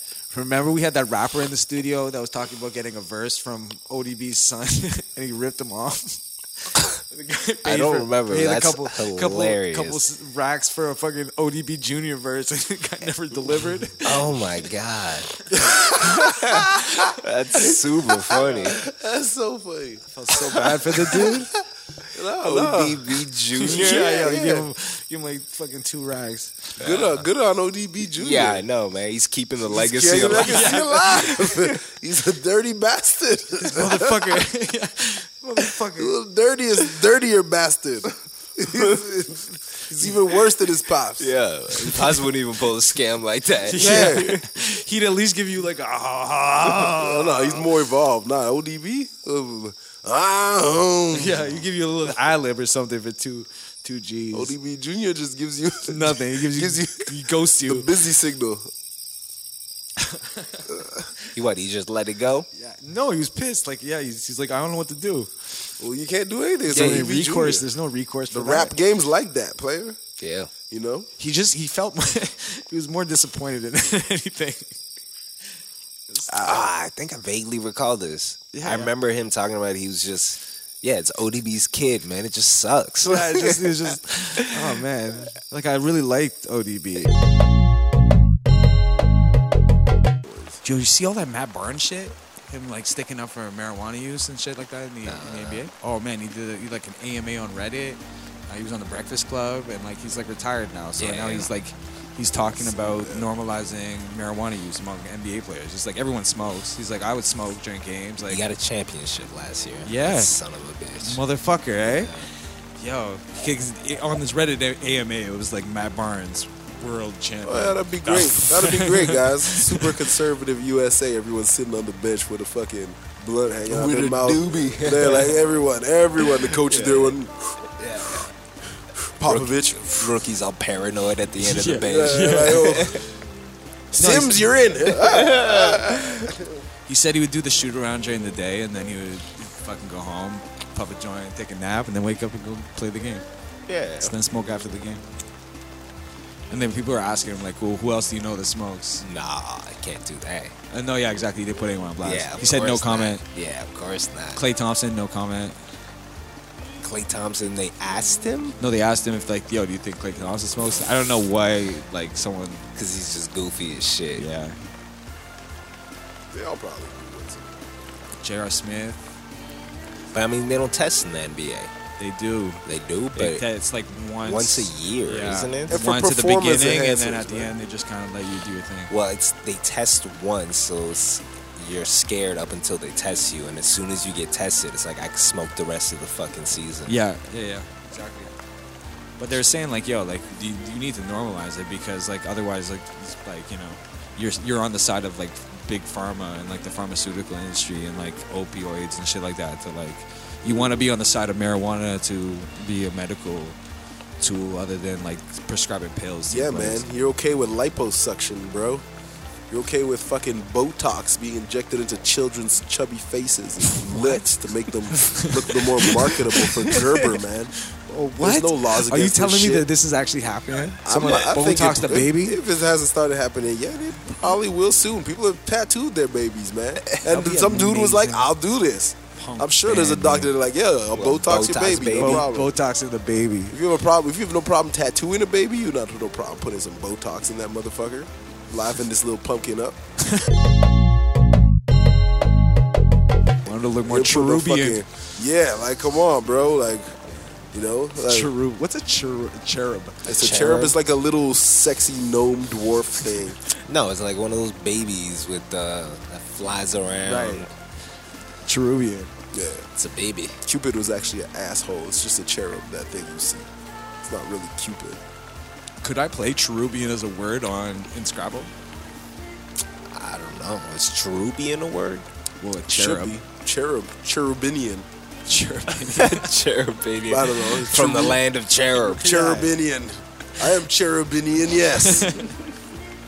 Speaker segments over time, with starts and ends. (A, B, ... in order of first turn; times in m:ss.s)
0:00.3-0:14.4 A
0:07.6-0:10.0 B
0:14.0-0:15.4 B
0:15.5-0:17.0 A
0:15.6-0:16.7 C
0:16.0-0:18.8 B
0:18.1-0:21.4 C
0:20.1-0:21.5 A
0:22.1-0:24.7 C
0:22.4-0:24.3 B
0:23.6-0:26.8 A
0:26.8-0:27.1 B
0:26.8-0:28.6 C
0:28.2-0:30.9 B
0:29.7-0:34.4 C
0:30.3-0:31.7 A
0:33.7-0:36.2 A
0:35.9-0:41.3 C
0:41.2-0:44.4 B
0:43.7-0:47.7 A
0:43.8-0:44.4 C
0:46.7-0:51.6 C
0:51.1-0:54.5 A
0:54.3-0:58.7 C
0:55.8-0:57.9 A
1:00.0-1:00.8 A
1:01.3-1:02.5 B
1:02.5-1:05.3 A
1:05.8-1:07.7 C
1:06.7-1:08.8 A
1:08.3-1:10.0 C
1:10.2-1:10.5 B
1:10.7-1:11.1 C
1:11.2-1:14.7 A
1:16.3-1:24.6 B
1:18.5-1:18.9 A
1:23.0-1:27.1 A
1:30.2-1:30.6 C
1:30.6-1:48.4 A
1:35.0-1:35.7 B
1:41.0-1:41.5 B
1:42.5-1:43.3 C
1:48.2-1:51.2 B
1:49.8-1:50.3 A
1:51.0-1:52.1 A
1:51.8-1:52.3 B
1:52.8-2:00.1 A
1:57.4-2:07.5 C
2:03.7-2:05.3 B
2:06.4-2:07.2 B
2:07.8-2:08.3 B
2:09.0-2:10.2 C
2:09.2-2:13.0 B
2:11.4-2:12.9 A
2:11.8-2:13.0 C
2:13.9-2:16.6 C
2:14.0-2:14.5 A
2:15.0-2:16.3 B
2:16.9-2:23.2 A
2:23.7-2:24.1 B
2:24.0-2:25.0 A
2:26.5-2:29.0 A
2:29.0-2:30.6 B
2:30.7-2:33.2 A
2:32.0-2:34.4 B
2:34.4-2:35.6 A
2:36.8-2:38.6 B
2:38.6-2:42.7 A
2:42.7-2:44.2 B
2:44.2-2:44.6 A
2:46.3-2:47.5 C
2:48.2-2:49.1 A
2:50.1-2:51.7 B
2:52.0-2:58.9 A
2:52.6-2:53.4 B
2:54.2-2:55.8 B
2:55.7-2:57.5 C
2:58.9-3:07.0 B
3:06.9-3:08.3 A
3:09.2-3:23.6 A
3:20.4-3:20.9 C
3:24.2-3:26.8 A
3:26.3-3:28.8 C
3:29.5-3:37.6 C
3:33.7-3:34.2 A
3:34.9-3:36.8 A
3:37.9-3:42.4 A
3:38.1-3:39.7 C
3:40.8-3:52.6 C
3:47.0-3:48.3 A
3:49.2-3:50.3 A
3:50.9-3:52.2 B
3:51.9-3:53.6 A
3:53.5-3:59.8 C
4:03.4-4:04.9 A
4:03.8-4:07.0 C
4:07.5-4:08.3 C
4:08.0-4:10.1 A
4:10.0-4:13.4 C
4:10.1-4:10.7 B
4:13.6-4:17.5 B
4:17.0-4:17.5 A
4:18.4-4:19.1 A
4:19.3-4:19.7 C
4:19.7-4:20.4 B
4:20.4-4:23.5 C
4:24.0-4:25.0 C
4:25.8-4:28.5 A
4:29.9-4:32.1 B
4:32.4-4:33.2 A
4:32.7-4:34.9 C
4:35.2-4:36.3 A
4:35.8-4:39.0 B
4:37.1-4:38.2 C
4:38.8-4:39.5 A
4:38.9-4:42.2 C
4:41.8-4:42.3 A